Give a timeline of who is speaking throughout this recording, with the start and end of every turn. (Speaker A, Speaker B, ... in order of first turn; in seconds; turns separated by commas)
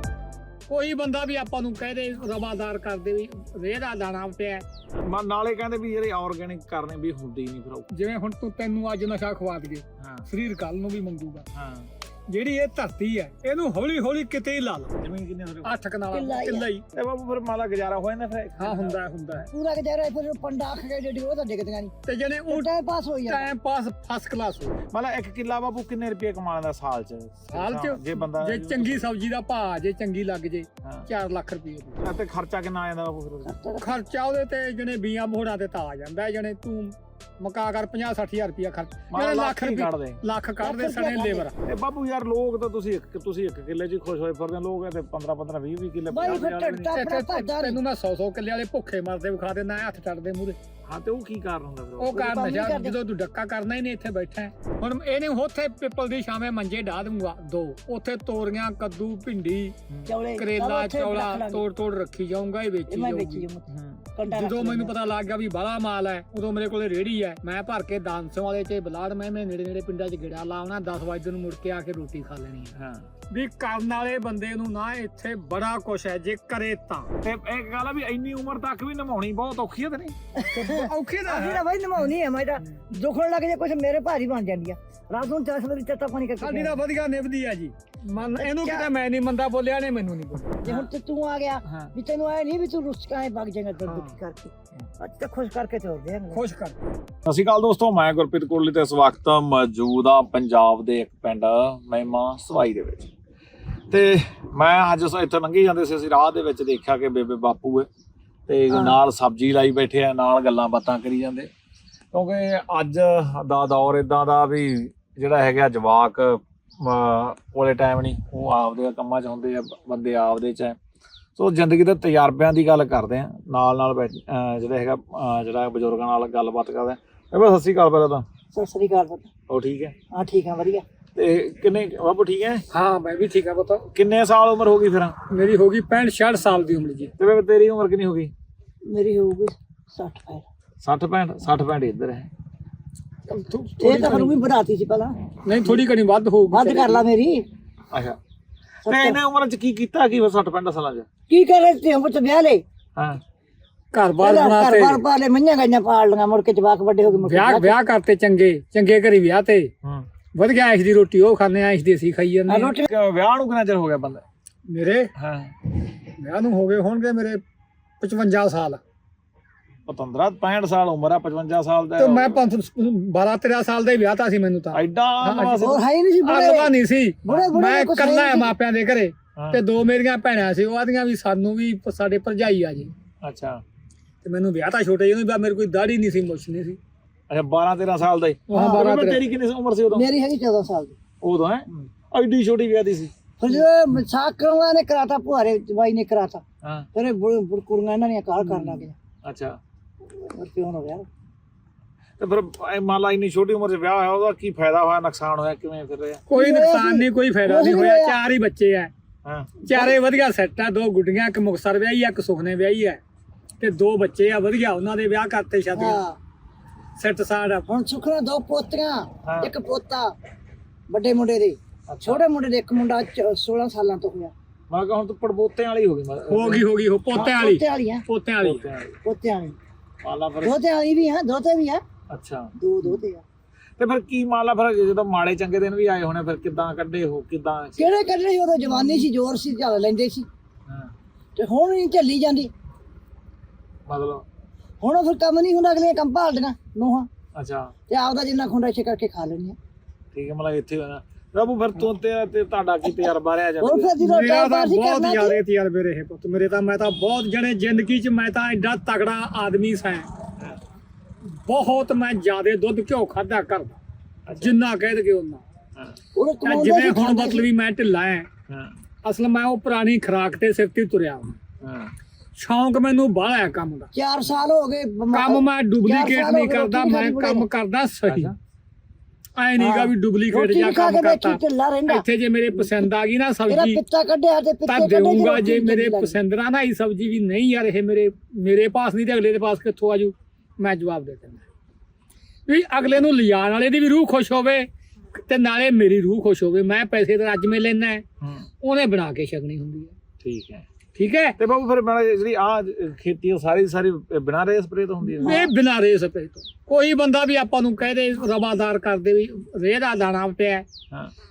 Speaker A: 0.7-4.7, Speaker B: 4.9-7.9, Speaker A: 7.9-11.5, Speaker B: 10.0-10.3, Speaker B: 11.5-11.9, Speaker A: 12.3-15.0, Speaker B: 15.0-15.7, Speaker A: 15.6-16.9, Speaker C: 16.1-16.7, Speaker B: 16.9-19.0, Speaker A: 18.6-19.5, Speaker C: 19.5-21.9, Speaker A: 22.1-22.7, Speaker C: 22.5-23.5, Speaker A: 23.3-24.8, Speaker B: 24.9-29.1, Speaker A: 27.5-32.0, Speaker B: 32.0-33.5, Speaker C: 33.5-33.9, Speaker A: 33.8-41.6, Speaker B: 39.1-40.2, Speaker C: 40.6-41.5, Speaker B: 41.6-47.1, Speaker C: 46.1-47.8, Speaker A: 46.9-50.6, Speaker B: 50.9-52.2, Speaker A: 52.0-59.8, Speaker C: 52.1-53.0, Speaker C: 60.0-61.6, Speaker A: 60.4-63.5, Speaker C: 62.9-65.0, Speaker B: 63.7-64.1, Speaker A: 64.3-72.7, Speaker B: 72.7-73.1, Speaker A: 73.3-77.1, Speaker B: 77.2-80.2, Speaker C: 80.3-86.8, Speaker A: 80.5-81.7, Speaker A: 86.4-90.7, Speaker C: 88.4-88.9, Speaker C: 90.6-96.4, Speaker B: 91.7-91.9, Speaker A: 93.9-94.2, Speaker A: 96.3-96.8, Speaker B: 97.2-103.1, Speaker B: 103.9-107.9, Speaker B: 108.5-111.5, Speaker C: 108.7-109.0, Speaker B: 112.1-120.8, Speaker B: 121.4-128.2, Speaker C: 128.5-129.3, Speaker B: 129.5-129.9, Speaker C: 130.1-130.8, Speaker B: 131.1-132.6, Speaker A: 132.7-133.9, Speaker B: 133.9-135.2, Speaker A: 135.3-137.1, Speaker B: 137.2-138.3, Speaker C: 138.8-140.5, Speaker B: 140.8-142.3, Speaker A: 143.3-144.4, Speaker C: 143.8-145.2, Speaker A: 145.4-147.0, Speaker C: 146.5-147.4, Speaker B: 147.9-148.2, Speaker C: 148.8-149.2, Speaker B: 148.8-151.1, Speaker C: 151.3-152.6, Speaker B: 152.9-153.2, Speaker A: 153.9-155.0, Speaker C: 154.2-157.8, Speaker A: 157.2-159.7, Speaker A: 160.3-162.7, Speaker C: 162.5-162.9, Speaker B: 162.9-164.2, Speaker A: 164.7-165.1, Speaker B: 165.1-165.5, Speaker A: 166.2-167.4, Speaker A: 168.0-168.8, Speaker B: 169.8-172.4, Speaker A: 172.0-182.9, Speaker B: 174.7-175.8, Speaker C: 175.6-176.7, Speaker C: 177.2-178.5, Speaker B: 179.3-179.6, Speaker B: 183.2-183.6, Speaker A: 184.2-186.8, Speaker B: 187.3-190.1, Speaker A: 188.5-189.2, Speaker C: 188.5-188.8, Speaker C: 189.9-190.9, Speaker B: 191.2-193.1, Speaker C: 193.4-196.4, Speaker B: 196.6-196.9, Speaker C: 196.9-198.9, Speaker A: 198.5-198.8, Speaker B: 199.2-199.6, Speaker C: 200.2-201.1, Speaker B: 202.2-206.2, Speaker A: 206.3-208.9, Speaker C: 206.3-208.2, Speaker B: 209.2-209.5, Speaker A: 209.6-213.0, Speaker C: 209.7-209.9, Speaker A: 213.6-216.0, Speaker C: 215.8-216.2, Speaker A: 217.0-217.7, Speaker C: 217.7-220.1, Speaker B: 219.2-219.5, Speaker C: 220.9-224.3, Speaker B: 221.9-222.2, Speaker B: 224.7-226.7, Speaker A: 226.3-228.7, Speaker C: 227.1-228.0, Speaker B: 228.4-228.9, Speaker C: 229.0-229.6, Speaker B: 230.0-230.6, Speaker C: 230.4-231.8, Speaker B: 232.1-233.0, Speaker C: 232.6-233.2, Speaker B: 233.8-237.9, Speaker C: 237.8-240.3, Speaker B: 240.7-240.9, Speaker C: 241.3-242.5, Speaker B: 243.9-244.2, Speaker C: 244.8-247.1, Speaker B: 247.3-247.7, Speaker C: 247.9-249.6, Speaker B: 250.1-253.9, Speaker C: 253.6-255.4, Speaker A: 254.0-260.1, Speaker A: 261.4-263.8, Speaker B: 264.2-264.5, Speaker A: 264.4-265.4, Speaker C: 266.1-267.4, Speaker A: 266.4-268.3, Speaker B: 268.5-268.8, Speaker A: 269.0-271.4, Speaker B: 271.6-271.9, Speaker A: 272.4-273.9, Speaker C: 273.9-277.4, Speaker A: 275.1-278.3, Speaker B: 278.1-278.3, Speaker A: 279.4-283.8, Speaker C: 279.6-282.0, Speaker C: 283.5-286.2, Speaker A: 284.7-291.4, Speaker A: 292.5-298.0, Speaker A: 298.6-299.9, Speaker B: 300.2-300.6, Speaker A: 300.9-301.4, Speaker B: 301.4-305.4, Speaker C: 305.2-305.5, Speaker A: 305.2-310.6